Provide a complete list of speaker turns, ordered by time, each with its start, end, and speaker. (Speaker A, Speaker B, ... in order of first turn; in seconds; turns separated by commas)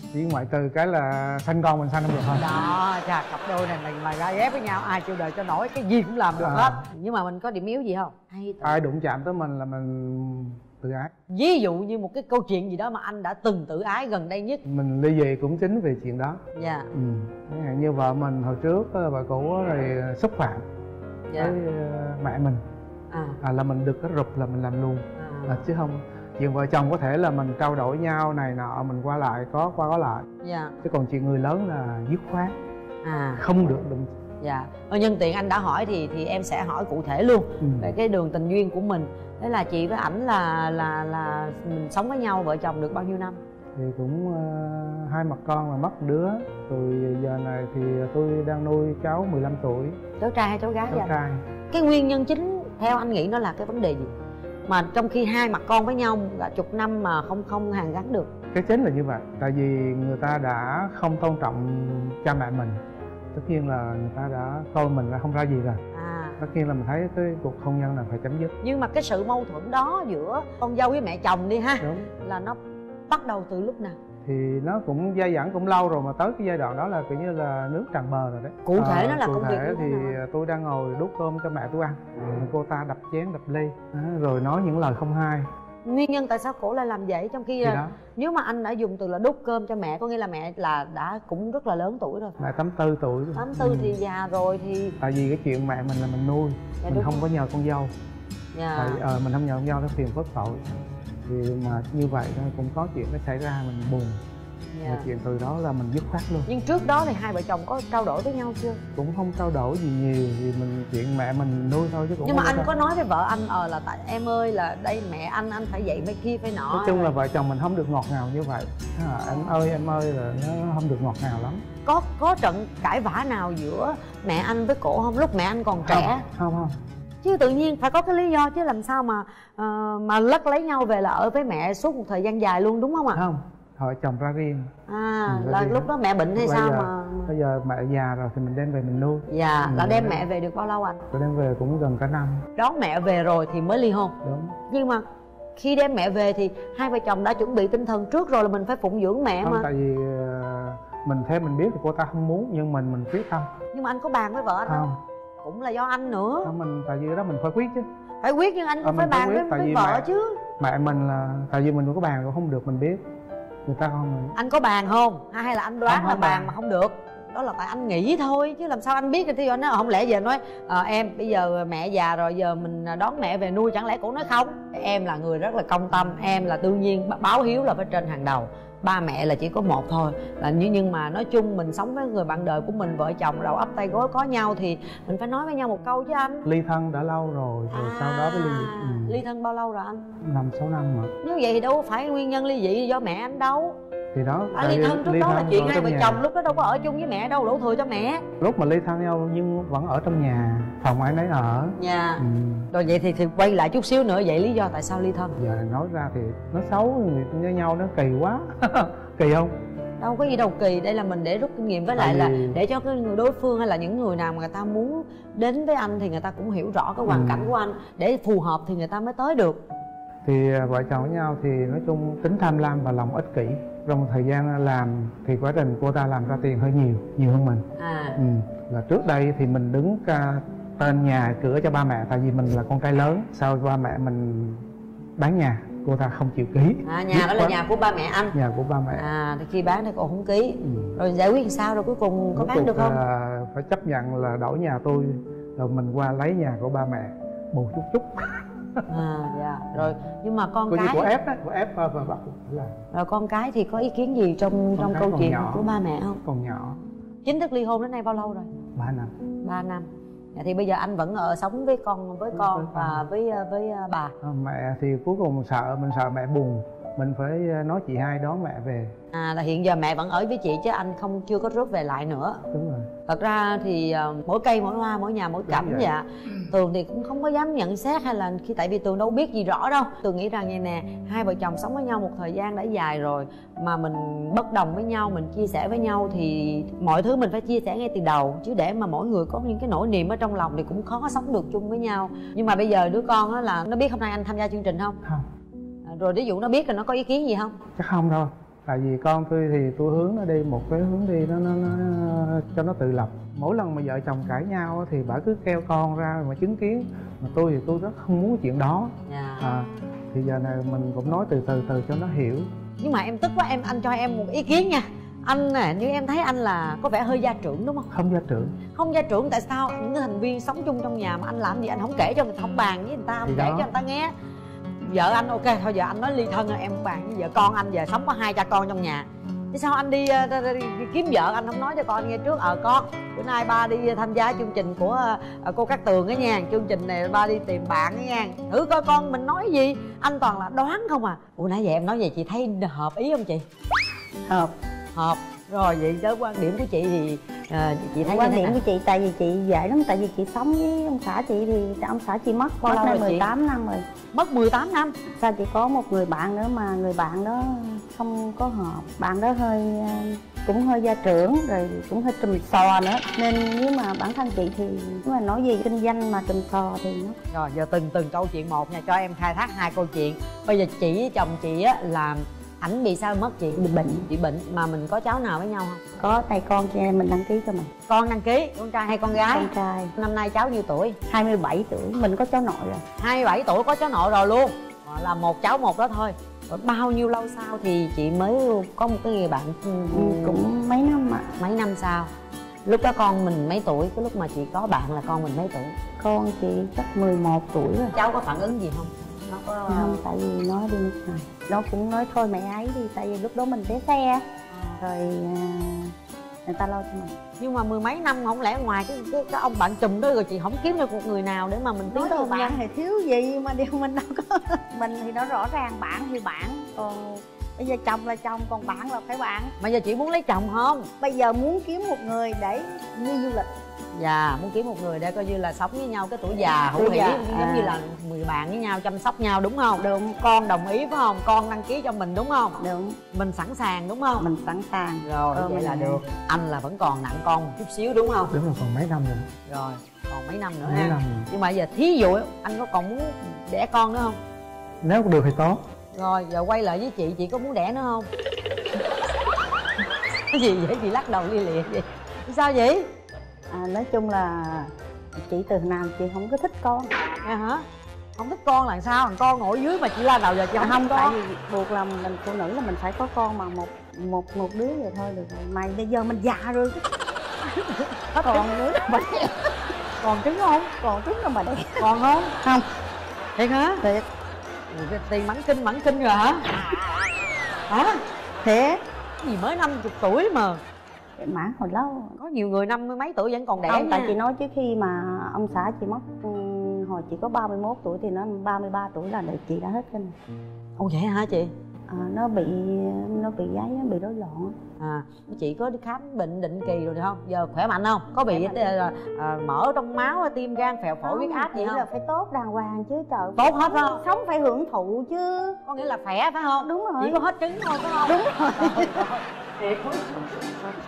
Speaker A: 0.1-2.5, Speaker B: 2.3-8.8, Speaker A: 6.4-6.8, Speaker A: 8.6-11.1, Speaker B: 11.3-14.6, Speaker A: 14.7-16.4, Speaker B: 16.6-16.9, Speaker A: 16.9-20.6, Speaker B: 21.3-21.6, Speaker A: 21.4-22.6, Speaker B: 23.1-23.4, Speaker A: 23.4-30.3, Speaker B: 25.2-25.6, Speaker B: 30.4-30.8, Speaker A: 30.8-32.5, Speaker B: 33.0-33.4, Speaker A: 33.4-34.1, Speaker B: 34.4-43.4, Speaker A: 37.6-37.9, Speaker A: 43.8-50.0, Speaker B: 50.2-51.1, Speaker A: 50.9-51.4, Speaker B: 51.7-54.1, Speaker B: 54.7-58.3, Speaker A: 58.5-62.8, Speaker A: 63.3-65.8, Speaker B: 65.9-66.4, Speaker A: 66.4-68.5, Speaker B: 68.6-72.6, Speaker A: 71.8-72.1, Speaker B: 73.1-74.0, Speaker A: 74.2-85.5, Speaker B: 78.7-80.2, Speaker B: 85.8-92.4, Speaker A: 87.6-88.0, Speaker A: 92.4-94.0, Speaker B: 93.3-95.0, Speaker A: 95.0-97.9, Speaker B: 96.8-97.2, Speaker B: 98.5-99.0, Speaker A: 98.8-100.7, Speaker A: 101.3-104.2, Speaker B: 104.7-105.1, Speaker A: 104.9-106.5, Speaker B: 106.5-108.8, Speaker A: 109.0-112.7, Speaker B: 112.2-117.1, Speaker A: 116.7-121.6, Speaker B: 121.9-126.2, Speaker A: 125.9-126.8, Speaker B: 127.2-133.2, Speaker A: 133.1-134.7, Speaker B: 134.9-137.3, Speaker A: 135.3-140.2, Speaker B: 139.3-141.0, Speaker A: 141.1-142.5, Speaker B: 142.6-144.2, Speaker A: 144.2-144.6, Speaker B: 144.7-145.0, Speaker B: 145.6-149.7, Speaker A: 149.4-153.5, Speaker B: 153.7-154.8, Speaker A: 154.7-155.0, Speaker B: 155.4-156.5, Speaker A: 156.4-157.9, Speaker B: 158.2-160.4, Speaker A: 158.8-160.1, Speaker A: 160.6-163.0, Speaker A: 163.7-164.4, Speaker B: 164.4-186.5, Speaker A: 165.9-166.5, Speaker A: 186.4-189.2, Speaker B: 187.7-190.1, Speaker A: 190.2-191.1, Speaker B: 191.2-193.8, Speaker A: 194.1-196.2, Speaker B: 194.6-198.2, Speaker A: 198.4-202.7, Speaker B: 201.8-205.4, Speaker A: 205.4-209.5, Speaker B: 210.0-219.6, Speaker A: 212.0-212.6, Speaker A: 217.1-217.5, Speaker A: 220.2-227.7, Speaker B: 227.8-228.2, Speaker A: 228.2-234.7, Speaker A: 235.2-237.6, Speaker B: 236.8-238.3, Speaker A: 238.3-239.1, Speaker B: 239.0-243.0, Speaker A: 240.6-240.9, Speaker A: 242.4-248.9, Speaker B: 248.9-251.1, Speaker A: 250.7-252.8, Speaker B: 252.9-256.2, Speaker A: 254.8-255.6, Speaker A: 256.2-256.8, Speaker B: 257.2-258.5, Speaker A: 258.8-259.1, Speaker B: 259.4-264.1, Speaker A: 262.3-263.1, Speaker A: 264.2-268.9, Speaker B: 269.1-272.4, Speaker A: 272.5-272.9, Speaker B: 273.1-295.0, Speaker A: 275.5-275.9, Speaker B: 295.9-297.6, Speaker A: 297.8-312.5, Speaker B: 309.1-309.4, Speaker B: 312.8-317.9, Speaker A: 317.9-318.6, Speaker B: 318.8-324.1, Speaker A: 323.2-323.7, Speaker B: 324.8-343.4, Speaker C: 344.3-344.5, Speaker B: 345.0-348.6, Speaker C: 348.0-353.9, Speaker B: 352.6-353.3, Speaker B: 354.1-354.9, Speaker C: 355.1-367.2, Speaker B: 367.3-375.8, Speaker C: 373.6-374.1, Speaker C: 376.0-377.7, Speaker B: 377.9-381.0, Speaker C: 379.1-379.9, Speaker C: 381.1-382.8, Speaker B: 383.0-390.4, Speaker C: 389.9-391.3, Speaker B: 391.4-392.1, Speaker B: 392.7-395.7, Speaker C: 396.0-398.0, Speaker B: 397.9-400.0, Speaker C: 399.7-404.2, Speaker C: 404.8-407.2, Speaker B: 407.4-412.6, Speaker C: 411.9-419.5, Speaker B: 419.6-420.9, Speaker C: 421.0-423.5, Speaker B: 423.9-432.6, Speaker C: 426.7-427.8, Speaker C: 429.8-430.2, Speaker C: 432.6-433.0, Speaker B: 433.1-434.3, Speaker C: 434.2-436.0, Speaker B: 435.0-438.3, Speaker A: 438.3-439.3, Speaker B: 439.5-444.2, Speaker A: 440.6-441.3, Speaker A: 444.8-445.6, Speaker B: 445.9-448.1, Speaker B: 450.3-452.9, Speaker C: 453.5-456.9, Speaker B: 457.2-457.6, Speaker B: 458.2-461.2, Speaker C: 460.6-466.9, Speaker B: 468.1-468.5, Speaker C: 468.2-469.5, Speaker B: 470.0-470.7, Speaker C: 470.8-471.9, Speaker B: 471.8-472.4, Speaker B: 473.4-473.8, Speaker B: 474.7-476.4, Speaker B: 477.7-478.0, Speaker C: 478.4-478.8, Speaker B: 479.2-480.6, Speaker C: 481.2-482.2, Speaker B: 482.2-484.1, Speaker C: 483.7-490.1, Speaker B: 490.8-491.5, Speaker C: 491.9-494.6, Speaker B: 494.8-501.9, Speaker C: 498.3-498.7, Speaker C: 501.0-505.6, Speaker B: 503.4-504.0, Speaker B: 505.7-510.3, Speaker C: 506.6-507.2, Speaker C: 508.1-509.1